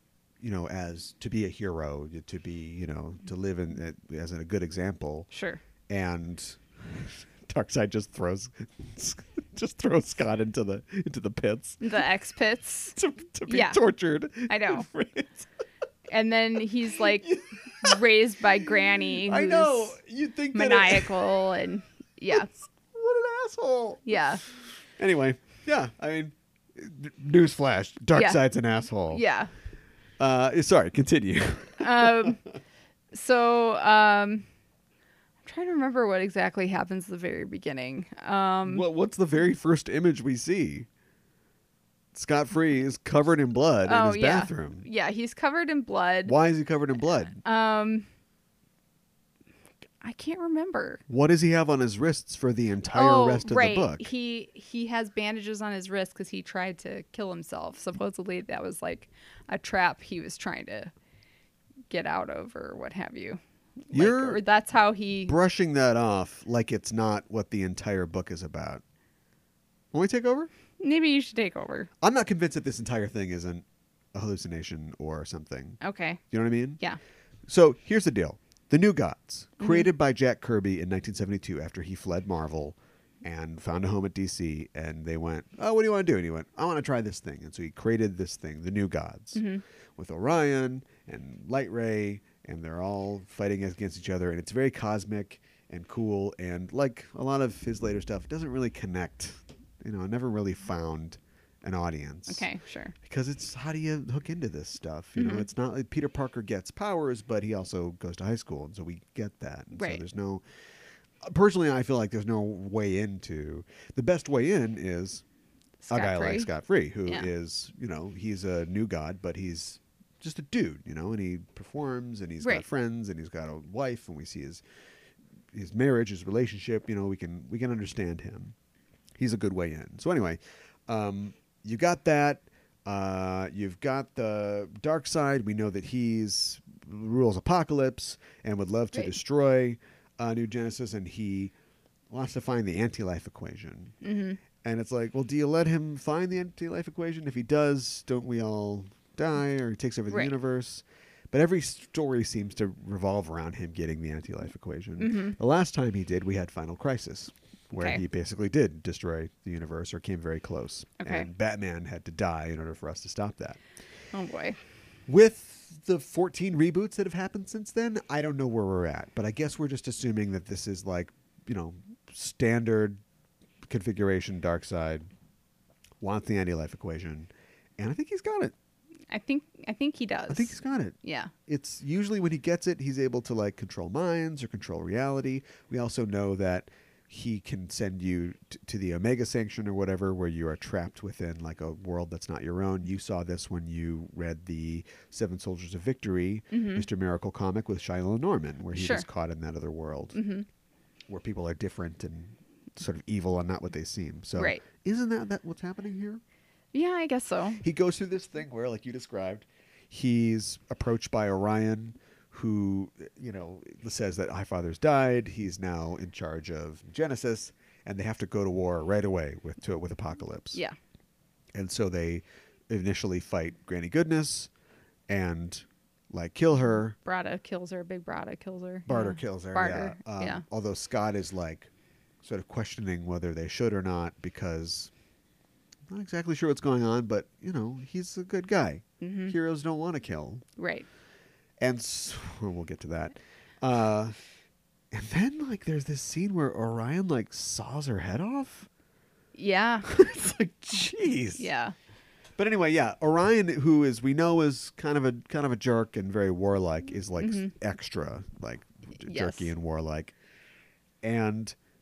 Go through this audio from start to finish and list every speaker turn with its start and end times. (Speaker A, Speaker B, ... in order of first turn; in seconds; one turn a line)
Speaker A: 0.4-5.3
Speaker B: 5.3-5.6
Speaker A: 5.9-11.8
Speaker B: 11.8-13.8
Speaker A: 13.0-15.5
Speaker B: 14.5-14.9
Speaker B: 16.1-20.0
Speaker A: 17.2-18.0
Speaker A: 19.2-21.3
Speaker B: 20.5-22.5
Speaker A: 22.3-24.2
Speaker B: 24.1-24.4
Speaker A: 25.0-29.2
Speaker B: 28.1-28.4
Speaker B: 29.1-29.5
Speaker A: 30.2-32.3
Speaker B: 31.8-32.4
Speaker B: 33.1-34.5
Speaker B: 35.4-38.9
Speaker A: 38.6-40.9
Speaker A: 42.1-44.9
Speaker B: 43.9-46.4
Speaker A: 46.3-47.4
Speaker B: 47.3-48.1
Speaker B: 50.0-51.0
Speaker A: 51.1-54.1
Speaker B: 52.9-60.9
Speaker B: 61.9-65.3
Speaker A: 63.9-64.4
Speaker A: 65.3-68.8
Speaker A: 69.9-70.5
Speaker B: 70.8-71.9
Speaker A: 72.0-75.8
Speaker B: 75.8-76.2
Speaker A: 76.3-76.8
Speaker A: 77.5-102.5
Speaker B: 79.6-79.9
Speaker B: 89.3-89.6
Speaker B: 102.3-102.9
Speaker A: 103.0-110.4
Speaker B: 105.2-105.5
Speaker B: 109.8-110.0
Speaker A: 111.2-115.2
Speaker B: 115.8-116.5
Speaker A: 115.9-124.6
Speaker A: 125.5-128.6
Speaker A: 129.2-141.5
Speaker A: 142.1-144.0
Speaker B: 144.0-144.4
Speaker A: 144.6-163.6
Speaker B: 155.0-155.4
Speaker B: 161.0-161.3
Speaker B: 164.1-164.6
Speaker A: 165.1-173.0
Speaker A: 173.7-175.1
Speaker A: 176.0-178.5
Speaker B: 179.1-181.3
Speaker A: 180.3-200.2
Speaker B: 196.5-196.9
Speaker B: 198.7-199.1
Speaker B: 200.1-200.5
Speaker A: 201.1-206.2
Speaker B: 204.4-204.6
Speaker B: 206.7-207.6
Speaker A: 207.6-220.6
Speaker A: 221.5-224.5
Speaker A: 225.1-227.0
Speaker B: 227.0-230.4
Speaker A: 228.9-231.7
Speaker A: 232.2-234.9
Speaker A: 235.9-240.4
Speaker B: 239.0-239.4
Speaker B: 240.6-240.9
Speaker A: 241.6-244.2
Speaker A: 244.9-248.7
Speaker B: 249.3-249.9
Speaker A: 249.8-251.5
Speaker B: 251.4-251.8
Speaker A: 252.4-260.1
Speaker B: 257.2-257.5
Speaker B: 259.0-259.5
Speaker A: 261.0-261.6